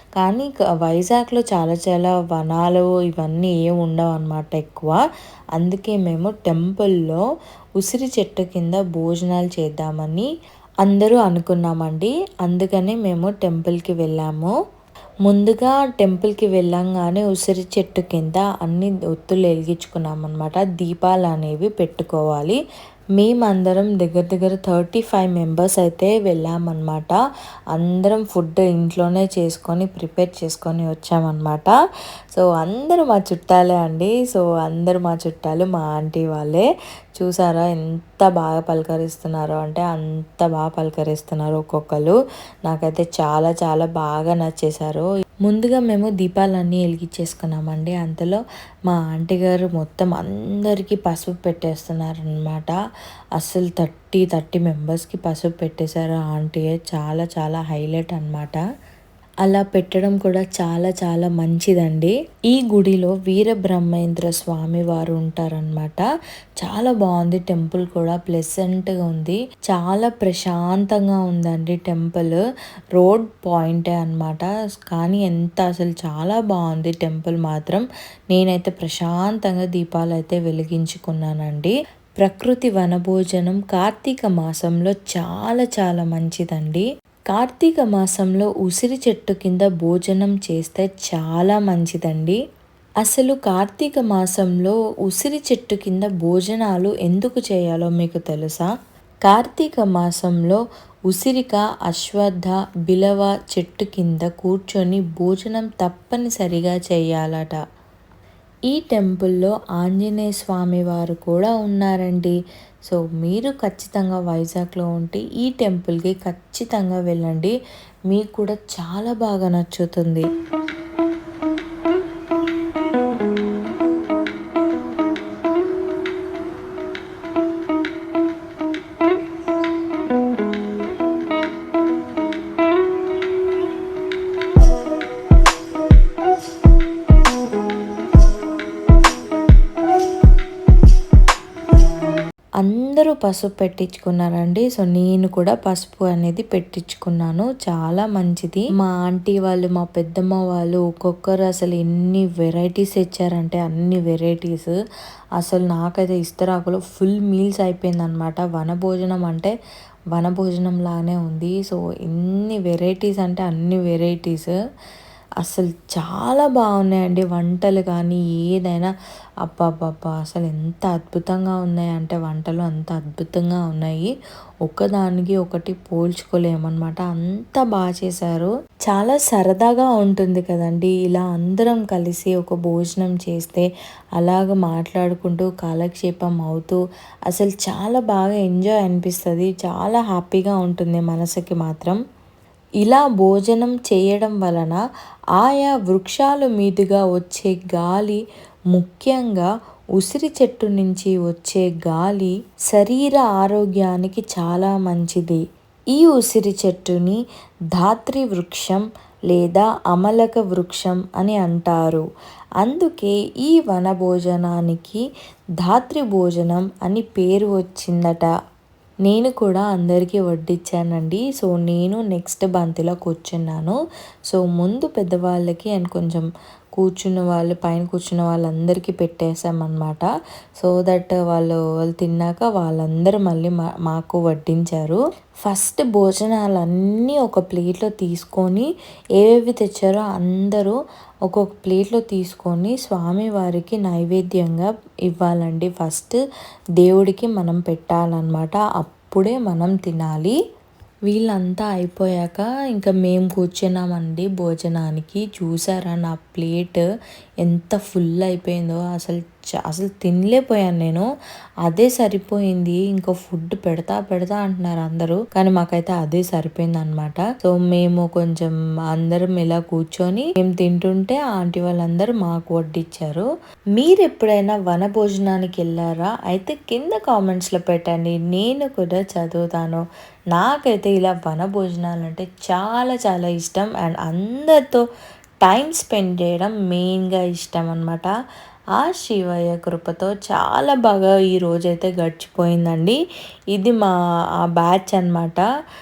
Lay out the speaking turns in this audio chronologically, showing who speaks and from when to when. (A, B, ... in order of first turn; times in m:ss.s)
0:00.2-0:05.0 A
0:05.6-0:07.2 A
0:07.8-0:10.3 A
0:10.8-0:14.5 A
0:15.3-0:22.6 A
0:23.2-0:27.2 A
0:27.7-0:31.7 A
0:32.3-0:36.6 A
0:37.2-0:52.8 A
0:53.4-0:58.6 A
0:59.4-1:06.0 A
1:06.6-1:12.4 A
1:13.0-1:32.4 A
1:33.0-1:38.7 A
1:39.2-1:47.6 A
1:48.7-1:52.3 A
1:52.9-1:57.5 A
1:58.1-2:00.2 A
2:22.6-2:34.7 A
2:35.4-2:39.5 A
2:40.1-2:44.5 A
2:45.4-2:48.9 A
2:49.4-2:54.1 A
2:54.6-3:12.0 A
3:12.8-3:14.8 A
3:15.4-3:18.2 A
3:18.7-3:25.4 A
3:25.9-3:27.2 A
3:27.7-3:32.0 A
3:32.6-3:35.0 A
3:35.6-3:38.3 A
3:39.0-3:43.8 A
3:44.3-3:46.2 A
3:46.8-3:58.7 A
3:59.2-4:00.8 A
4:01.3-4:06.2 A
4:06.8-4:10.3 A
4:11.1-4:16.8 A
4:17.4-4:21.1 A
4:21.7-4:44.8 A
4:45.4-4:48.1 A
4:48.7-4:53.0 A
4:53.5-4:55.4 A